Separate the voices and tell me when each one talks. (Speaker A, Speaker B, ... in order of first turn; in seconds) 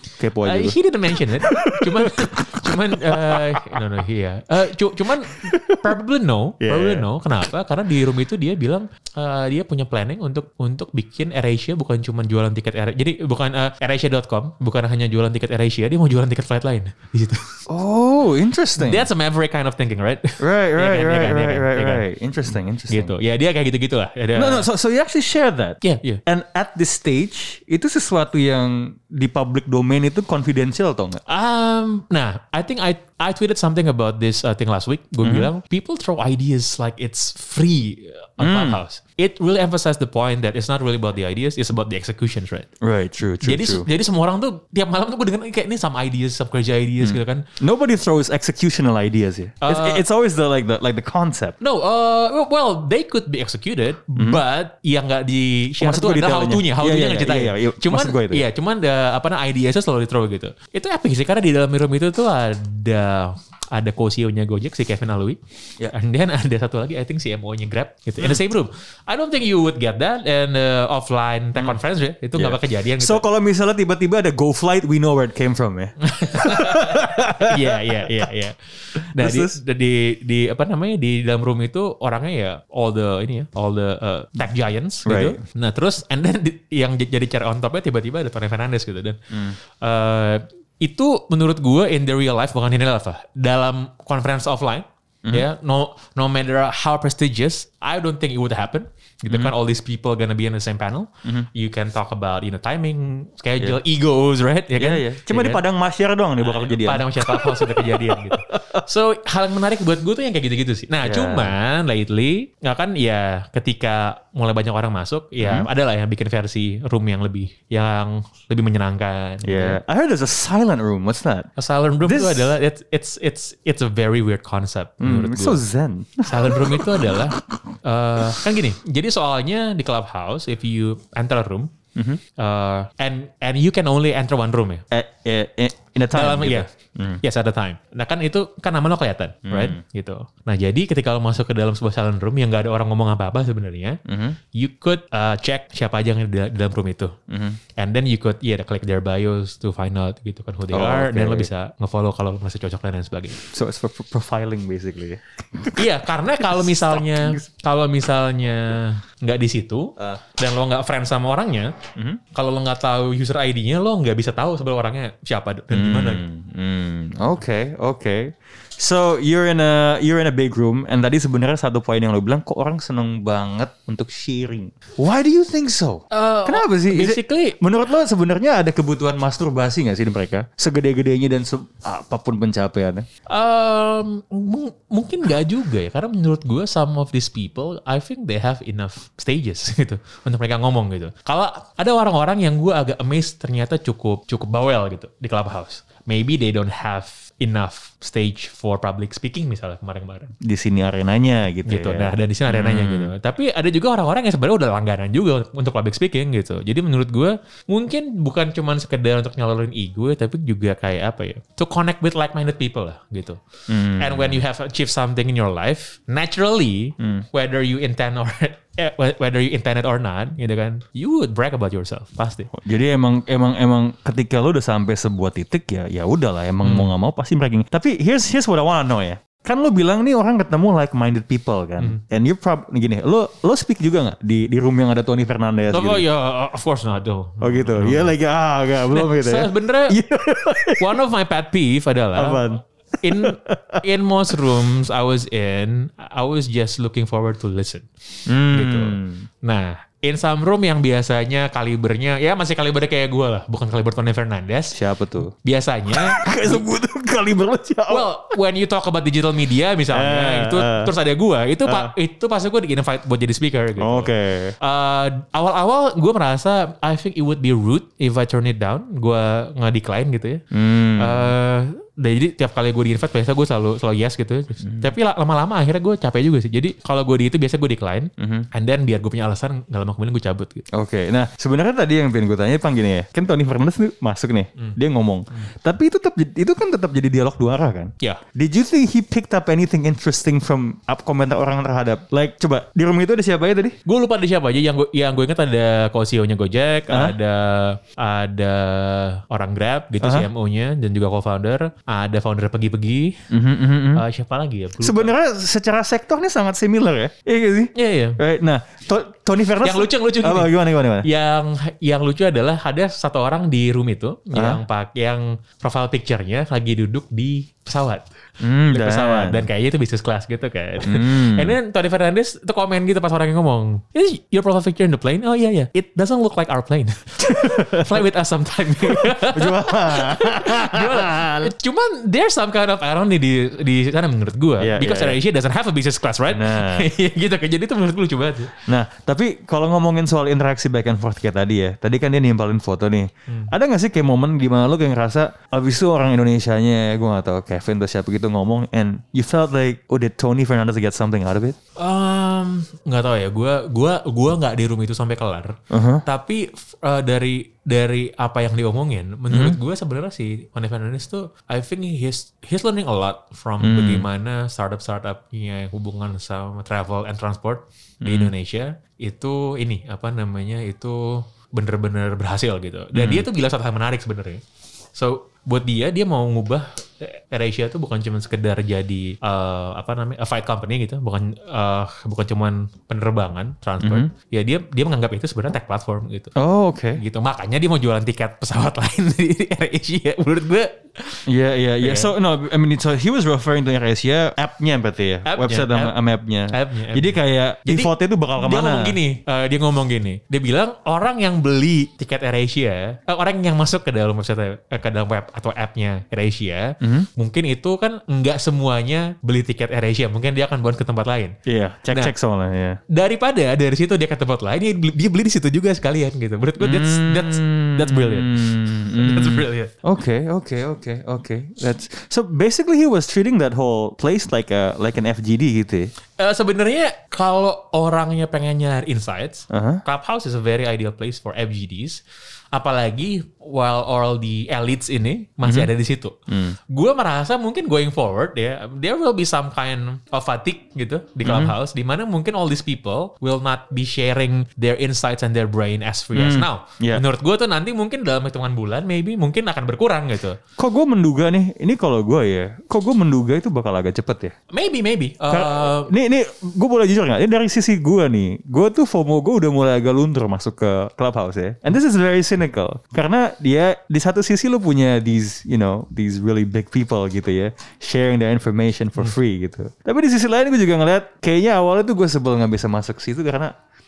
Speaker A: 0.2-0.8, 1.4-3.8, 5.3-5.9, 6.6-7.1, 17.7-19.1, 20.4-23.1, 24.4-31.2, 35.2-35.5, 38.4-38.8, 42.8-43.9, 47.0-51.6, 55.8-58.5, 72.3-78.3, 79.0-79.6, 85.1-85.4, 89.3-89.6, 104.8-108.8, 111.0-111.5, 115.4-115.7, 119.4-121.5, 122.0-122.5, 125.0-127.6, 131.9-132.2, 134.9-137.2, 139.5-139.8, 144.1-144.4, 147.3-147.6, 150.7-151.5, 153.4-155.9, 156.4-157.4, 165.7-183.1, 200.4-203.1, 213.7-214.4, 217.0-217.2, 222.5-236.0, 237.4-241.0, 242.2-243.8, 248.3-249.3, 254.7-255.3, 255.9-258.1, 259.9-260.9, 261.7-261.9, 263.8-264.6, 270.5-271.3, 274.6-274.9, 278.2-278.5, 280.7-293.8, 300.0-300.3, 303.3-304.0, 304.8-311.1, 314.3-314.6, 318.4-319.5, 320.8-321.6, 327.3-328.0, 328.8-331.5, 334.6-335.2, 336.3-336.9, 338.7-351.6, 355.7-356.0, 359.3-359.6, 363.6-364.1, 368.0-368.3, 372.9-373.3, 383.8-384.1, 386.4-387.0, 391.3-399.0, 406.8-407.1, 411.5-412.8, 416.6-425.9, 429.5-429.8, 435.4-435.7, 436.3-436.6, 441.2-441.5, 446.1-447.0, 450.6-454.4, 455.3-473.5
Speaker B: 0.4-17.6, 18.8-22.1, 22.9-24.7, 25.8-26.2, 31.3-42.7, 43.4-47.5, 49.6-50.0, 51.6-65.4, 65.9-73.2, 76.0-89.2, 89.7-105.6, 106.4-119.8, 121.6-125.6, 126.2-131.7, 132.4-134.8, 136.1-136.7, 137.2-144.0, 144.5-147.2, 147.8-153.4, 155.8-161.7, 162.3-166.2, 176.1-177.6, 183.3-200.3, 201.7-213.4, 214.0-222.5, 226.6-226.9, 235.7-238.2, 238.9-240.0, 240.8-242.4, 243.0-247.9, 248.5-254.8, 255.3-256.6, 257.9-270.4, 271.0-280.7, 293.9-303.2, 304.0-305.1, 307.8-308.2, 309.6-318.1, 318.7-338.6, 351.8-374.4, 374.9-386.3, 387.0-391.2, 391.8-392.1, 395.3-395.9, 396.5-411.4, 412.9-419.7, 426.2-432.0, 432.5-450.4, 454.5-455.9